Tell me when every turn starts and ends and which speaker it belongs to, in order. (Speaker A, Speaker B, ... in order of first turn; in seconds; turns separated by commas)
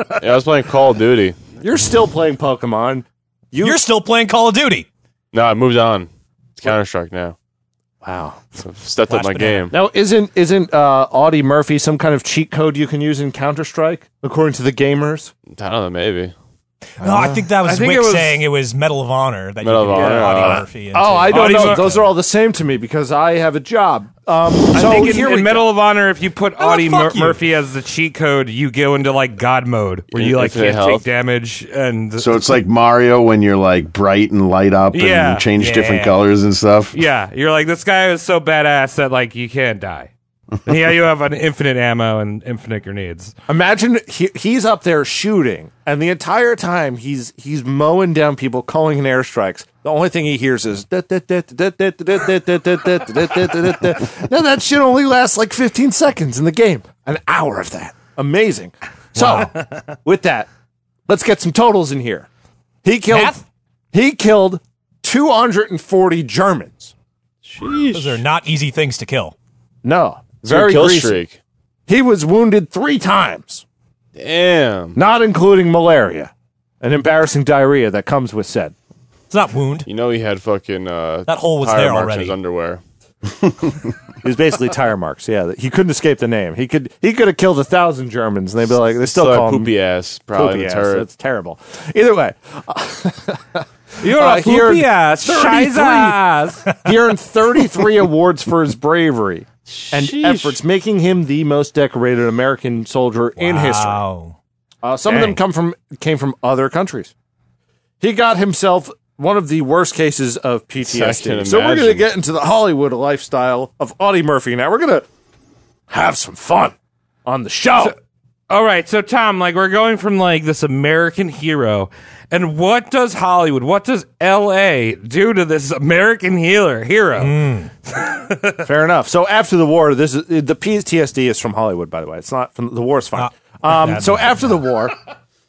Speaker A: 0.2-1.4, Speaker B: 1.6-3.8, Speaker C: 3.6-4.9, Speaker A: 5.3-7.3, Speaker B: 8.0-8.5, Speaker A: 8.6-9.7, Speaker C: 9.1-9.7, Speaker B: 9.7-15.3, Speaker A: 15.5-16.3, Speaker C: 17.0-22.1, Speaker B: 17.0-17.5, Speaker D: 17.6-18.4, Speaker A: 19.6-20.6, Speaker D: 19.9-20.6, Speaker B: 20.5-25.7, Speaker D: 21.3-21.9, Speaker D: 24.7-32.4, Speaker C: 26.6-27.4, Speaker A: 30.1-31.0, Speaker E: 32.2-37.0, Speaker D: 34.9-35.5, Speaker C: 35.6-36.2, Speaker D: 36.9-40.1, Speaker D: 40.6-43.3, Speaker B: 43.5-60.5, Speaker B: 61.1-62.3, Speaker B: 62.8-66.9, Speaker C: 63.1-63.4, Speaker A: 67.4-68.2, Speaker C: 67.9-69.3, Speaker B: 69.8-71.2, Speaker A: 70.4-71.4, Speaker B: 71.9-73.6, Speaker A: 74.2-75.0, Speaker B: 75.0-78.7, Speaker C: 79.3-79.9, Speaker A: 79.8-82.8, Speaker C: 81.3-82.4, Speaker B: 84.2-89.7, Speaker A: 89.0-91.1, Speaker B: 90.3-96.2, Speaker D: 94.0-96.7, Speaker B: 96.7-104.0, Speaker A: 99.7-100.6, Speaker C: 103.4-104.3, Speaker B: 104.8-107.1, Speaker B: 108.0-115.0, Speaker A: 110.8-112.0, Speaker B: 115.9-117.9, Speaker D: 118.5-128.6, Speaker C: 127.2-127.7, Speaker B: 128.6-134.9, Speaker C: 133.2-134.6